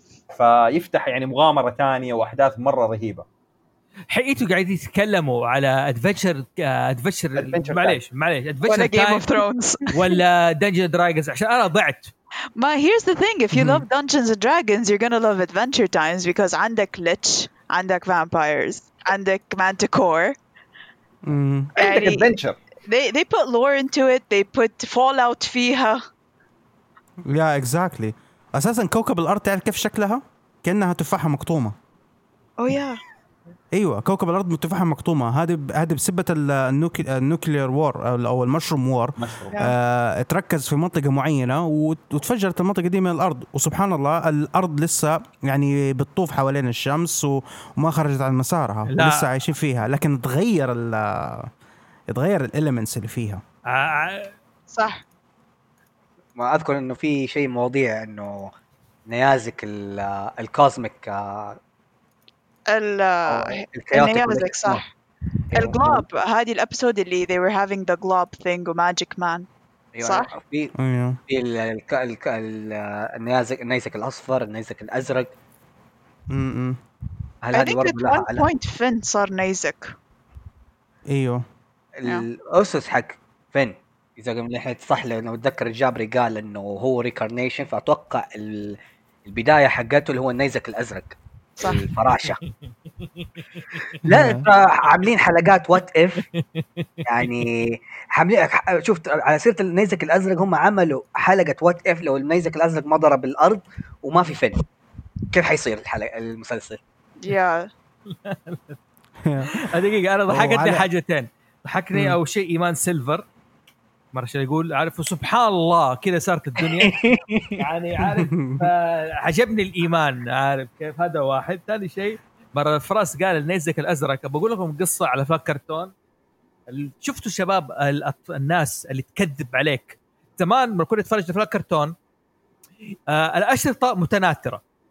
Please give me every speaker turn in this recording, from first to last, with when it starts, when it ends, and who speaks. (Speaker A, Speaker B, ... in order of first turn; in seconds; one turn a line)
Speaker A: 0.3-3.2
Speaker B: 4.1-12.1
Speaker A: 7.4-8.0
Speaker C: 8.7-10.2
Speaker C: 12.6-20.4
Speaker D: 13.5-13.8
Speaker D: 21.2-21.7
Speaker A: 21.8-22.6
Speaker C: 21.8-22.3
Speaker C: 22.9-26.0
Speaker D: 27.3-31.8
Speaker C: 32.6-33.0
Speaker D: 33.7-51.5
Speaker A: 39.2-39.6
Speaker B: 48.9-49.3
Speaker D: 52.1-53.4
Speaker B: 53.7-54.3
Speaker C: 54.7-55.0
Speaker E: 56.4-58.5
Speaker E: 59.1-61.6
Speaker C: 62.7-64.8
Speaker E: 63.3-64.8
Speaker E: 65.5-66.0
Speaker C: 65.5-69.5
Speaker E: 69.9-70.7
Speaker C: 70.0-70.3
Speaker D: 70.8-71.2
Speaker E: 71.3-75.4
Speaker D: 76.3-76.8
Speaker E: 77.4-78.5
Speaker C: 77.5-79.9
Speaker D: 81.1-81.4
Speaker E: 82.0-92.4
Speaker E: 94.0-96.2
Speaker D: 94.1-94.5
Speaker B: 96.4-96.8
Speaker E: 97.0-104.6
Speaker E: 105.3-106.8
Speaker C: 107.2-107.7
Speaker B: 108.1-108.8
Speaker D: 109.2-109.6
Speaker B: 109.5-113.3
Speaker D: 110.3-110.9
Speaker D: 111.9-112.2
Speaker B: 114.1-117.0
Speaker E: 116.6-117.6
Speaker B: 117.6-125.9
Speaker D: 118.2-118.7
Speaker B: 126.7-131.9
Speaker B: 133.1-134.6